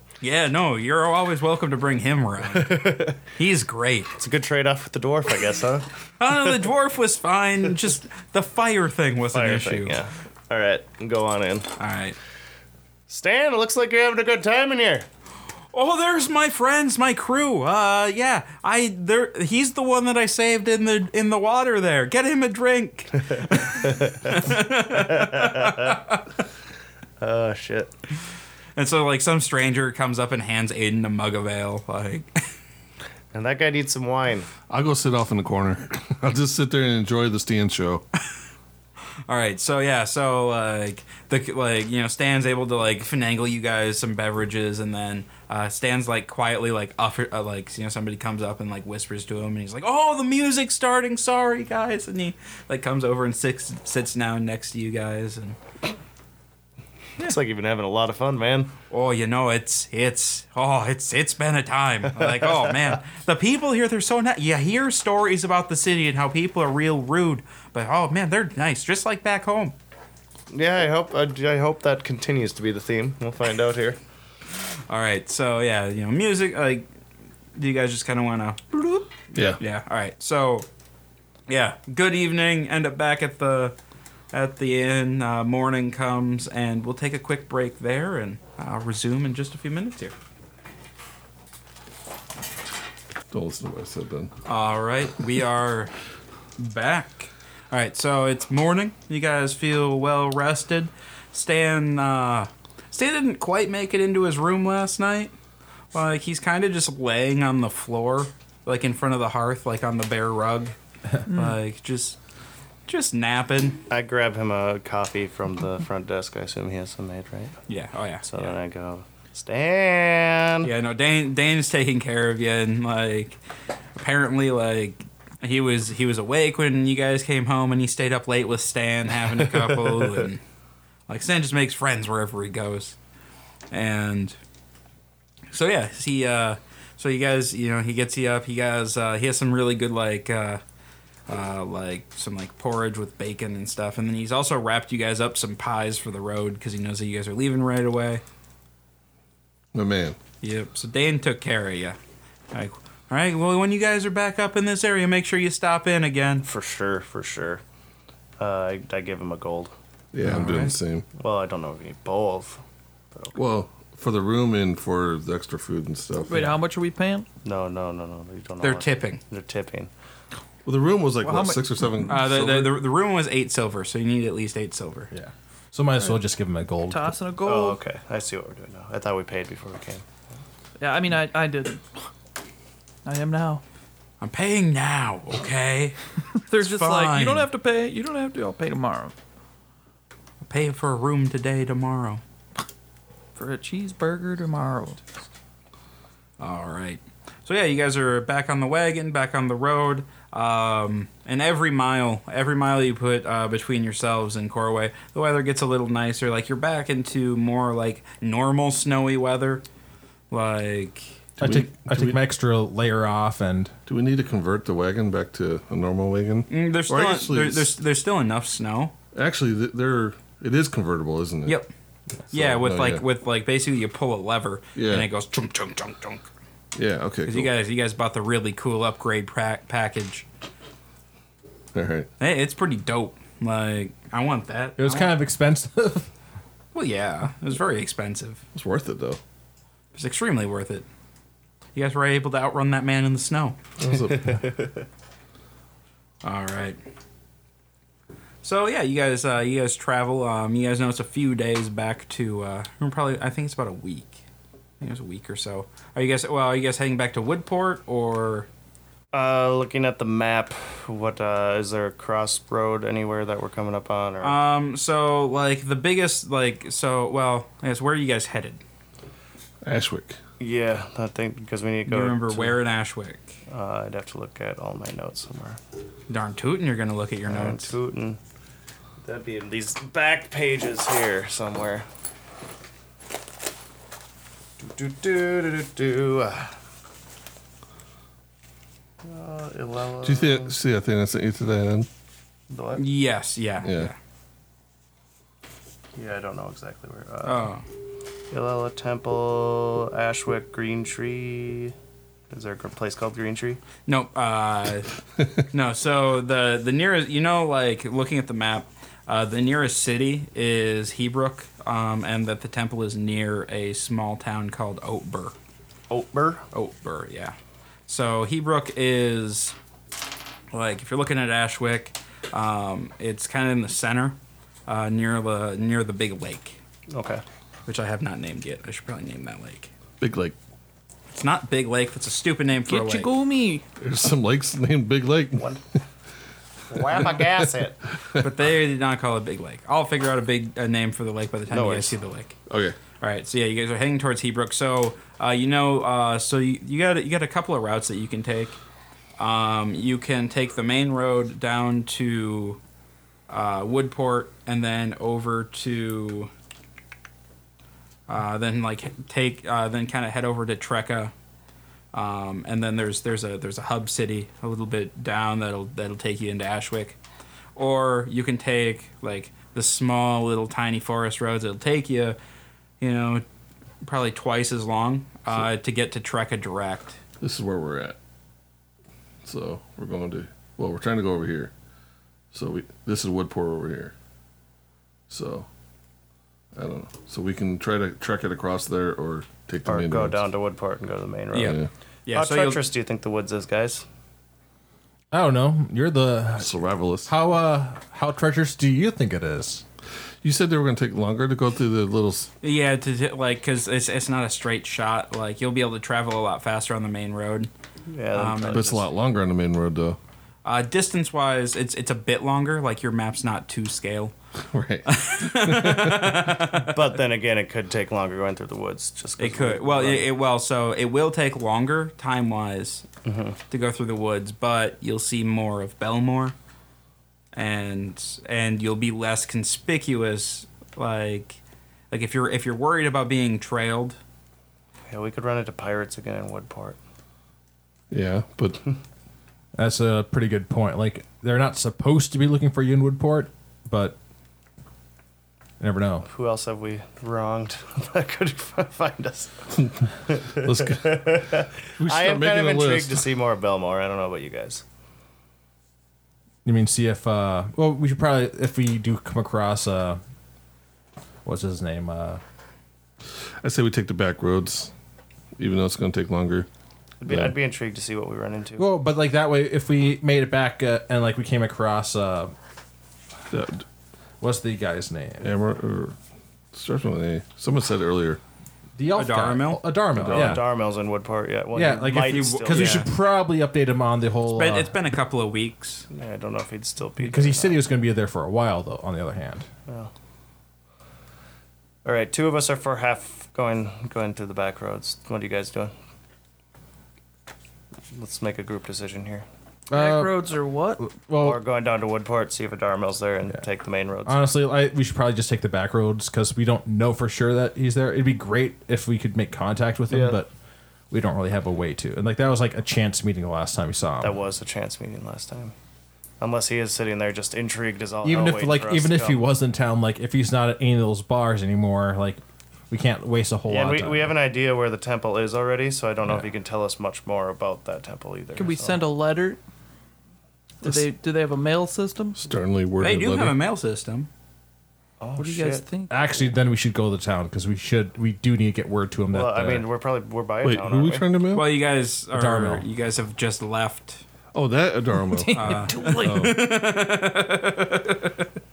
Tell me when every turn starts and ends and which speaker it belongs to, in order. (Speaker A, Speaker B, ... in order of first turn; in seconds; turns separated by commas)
Speaker A: 0.2-4.1, Speaker B: 2.5-3.2, Speaker B: 4.2-5.8, Speaker A: 6.2-10.0, Speaker B: 9.3-11.7, Speaker A: 11.8-12.2, Speaker B: 13.1-15.1, Speaker A: 15.7-26.2, Speaker B: 23.7-26.0, Speaker B: 27.2-27.9, Speaker A: 28.8-32.3, Speaker B: 33.3-34.5, Speaker C: 34.7-38.0, Speaker A: 39.3-55.6, Speaker B: 57.2-58.7, Speaker A: 58.9-69.7, Speaker B: 62.2-62.8, Speaker B: 70.5-74.0, Speaker A: 74.9-76.9, Speaker A: 77.5-80.7, Speaker C: 79.3-79.6, Speaker A: 81.5-83.7, Speaker A: 84.3-90.2, Speaker C: 93.3-94.3, Speaker A: 94.5-95.9, Speaker A: 96.6-105.3, Speaker A: 105.9-110.7, Speaker A: 111.3-112.2, Speaker D: 111.3-111.6, Speaker A: 112.9-113.8, Speaker B: 113.9-117.6, Speaker A: 117.7-118.5, Speaker B: 118.3-120.7, Speaker A: 120.6-123.4, Speaker A: 124.0-130.4, Speaker A: 131.1-133.0, Speaker A: 133.7-134.4, Speaker A: 135.5-140.6, Speaker A: 141.3-148.2, Speaker C: 149.7-150.2, Speaker A: 150.4-152.0, Speaker A: 152.5-156.4, Speaker B: 156.4-157.6, Speaker B: 158.4-159.7, Speaker C: 160.1-161.1, Speaker A: 160.2-160.8, Speaker B: 161.2-162.6, Speaker C: 163.3-166.5, Speaker D: 166.3-167.3, Speaker B: 167.4-169.9, Speaker A: 168.6-169.2, Speaker C: 170.6-172.8, Speaker D: 171.2-171.7, Speaker A: 172.1-175.1, Speaker E: 175.1-177.1, Speaker D: 176.9-177.8, Speaker B: 177.4-180.0, Speaker D: 180.8-181.9, Speaker D: 183.0-183.6, Speaker A: 184.2-186.0, Speaker D: 186.5-189.1, Speaker A: 186.5-187.5, Speaker A: 190.4-192.2, Speaker D: 193.3-195.0, Speaker A: 196.4-209.6, Speaker A: 210.3-211.1, Speaker C: 211.4-212.2, Speaker E: 211.4-213.7, Speaker C: 213.9-217.7, Speaker A: 216.5-218.9, Speaker C: 219.1-221.6, Speaker A: 221.4-221.7, Speaker C: 222.3-223.0, Speaker A: 222.3-226.3, Speaker C: 224.7-225.1, Speaker C: 226.7-227.5, Speaker A: 227.2-230.3, Speaker C: 231.7-232.1, Speaker A: 232.2-235.2, Speaker E: 234.8-236.1, Speaker A: 236.7-238.4, Speaker C: 238.5-239.2, Speaker A: 239.9-240.8, Speaker A: 241.7-243.6, Speaker C: 243.8-244.4, Speaker B: 244.2-244.7, Speaker A: 246.2-246.8, Speaker A: 248.4-254.2, Speaker A: 254.8-258.5, Speaker B: 259.1-264.4, Speaker A: 264.2-268.6, Speaker C: 269.6-270.2, Speaker B: 270.4-272.6, Speaker A: 271.9-273.4, Speaker B: 273.5-275.6, Speaker A: 276.1-277.7, Speaker B: 277.3-278.2, Speaker B: 279.0-281.8, Speaker B: 284.6-286.5, Speaker B: 289.0-290.5, Speaker C: 290.0-291.9, Speaker B: 292.5-292.8, Speaker A: 292.8-293.9, Speaker C: 293.6-293.9, Speaker B: 295.9-297.5, Speaker A: 297.2-297.6, Speaker B: 298.3-301.7, Speaker B: 302.3-303.6, Speaker A: 303.9-304.9, Speaker A: 305.5-315.3, Speaker B: 315.9-316.4, Speaker A: 316.5-317.3, Speaker A: 317.9-319.6, Speaker A: 320.5-324.1, Speaker A: 324.7-326.6, Speaker B: 326.9-327.2, Speaker A: 327.7-329.7, Speaker C: 330.0-330.4, Speaker A: 331.1-333.1, Speaker D: 332.7-333.6, Speaker C: 333.8-335.6, Speaker B: 335.4-335.6, Speaker B: 336.7-337.8, Speaker C: 336.9-337.2, Speaker A: 338.2-342.4, Speaker B: 341.5-341.9, Speaker C: 342.5-342.8, Speaker A: 343.0-348.6, Speaker A: 349.2-352.6, Speaker A: 353.3-356.3, Speaker A: 358.1-361.1, Speaker A: 361.9-367.0, Speaker A: 367.6-372.2, Speaker A: 372.8-373.2, Speaker A: 373.8-377.0, Speaker C: 377.2-378.0, Speaker C: 379.2-381.5, Speaker C: 382.3-383.9, Speaker C: 385.1-385.5, Speaker C: 386.5-390.2, Speaker B: 389.6-391.6, Speaker A: 391.3-392.6, Speaker C: 391.4-391.7, Speaker B: 392.1-393.8, Speaker E: 395.1-396.5, Speaker C: 396.4-397.1, Speaker E: 397.1-399.6, Speaker C: 400.2-402.3, Speaker A: 402.4-407.5, Speaker B: 407.9-408.9, Speaker A: 408.1-408.7, Speaker C: 408.5-410.0, Speaker A: 410.4-414.1, Speaker C: 414.5-416.3, Speaker A: 414.9-416.8, Speaker B: 416.5-420.1, Speaker A: 419.2-422.8, Speaker B: 423.0-423.4, Speaker A: 423.5-426.3, Speaker A: 427.3-431.4, Speaker A: 431.9-434.0, Speaker B: 434.9-436.8, Speaker C: 437.9-438.6, Speaker E: 439.6-443.9, Speaker E: 445.6-446.1, Speaker B: 446.1-454.6, Speaker C: 450.3-451.3, Speaker C: 451.8-453.0, Speaker E: 456.4-460.0, Speaker E: 461.2-462.2, Speaker C: 463.4-464.7, Speaker C: 465.4-466.5, Speaker B: 467.0-468.7, Speaker C: 467.1-467.3, Speaker E: 468.6-472.3, Speaker C: 473.3-473.6, Speaker E: 474.2-475.3, Speaker C: 475.2-475.9, Speaker C: 476.5-478.2, Speaker E: 478.8-480.4, Speaker A: 478.9-479.6, Speaker B: 479.9-482.9, Speaker C: 480.0-480.3, Speaker E: 481.5-484.7, Speaker A: 482.1-482.9, Speaker A: 484.3-485.9, Speaker B: 485.9-487.6, Speaker E: 487.0-489.5, Speaker B: 491.8-495.7, Speaker B: 497.9-499.2, Speaker E: 499.7-500.3, Speaker D: 499.7-500.9, Speaker E: 500.8-501.4, Speaker B: 501.2-504.3, Speaker E: 504.1-510.3, Speaker B: 509.9-510.2, Speaker E: 510.9-514.2, Speaker B: 514.0-515.5, Speaker B: 516.2-519.2, Speaker E: 518.0-524.1, Speaker B: 523.5-528.8, Speaker D: 528.4-529.4, Speaker D: 530.6-532.2, Speaker C: 532.2-533.4, Speaker A: 532.8-534.1, Speaker B: 535.0-535.6, Speaker D: 535.2-536.2, Speaker E: 535.9-539.6, Speaker B: 539.1-541.0, Speaker C: 540.4-541.5, Speaker A: 541.3-544.0, Speaker E: 542.1-542.6, Speaker C: 544.3-546.4, Speaker D: 545.1-546.3, Speaker A: 545.3-548.3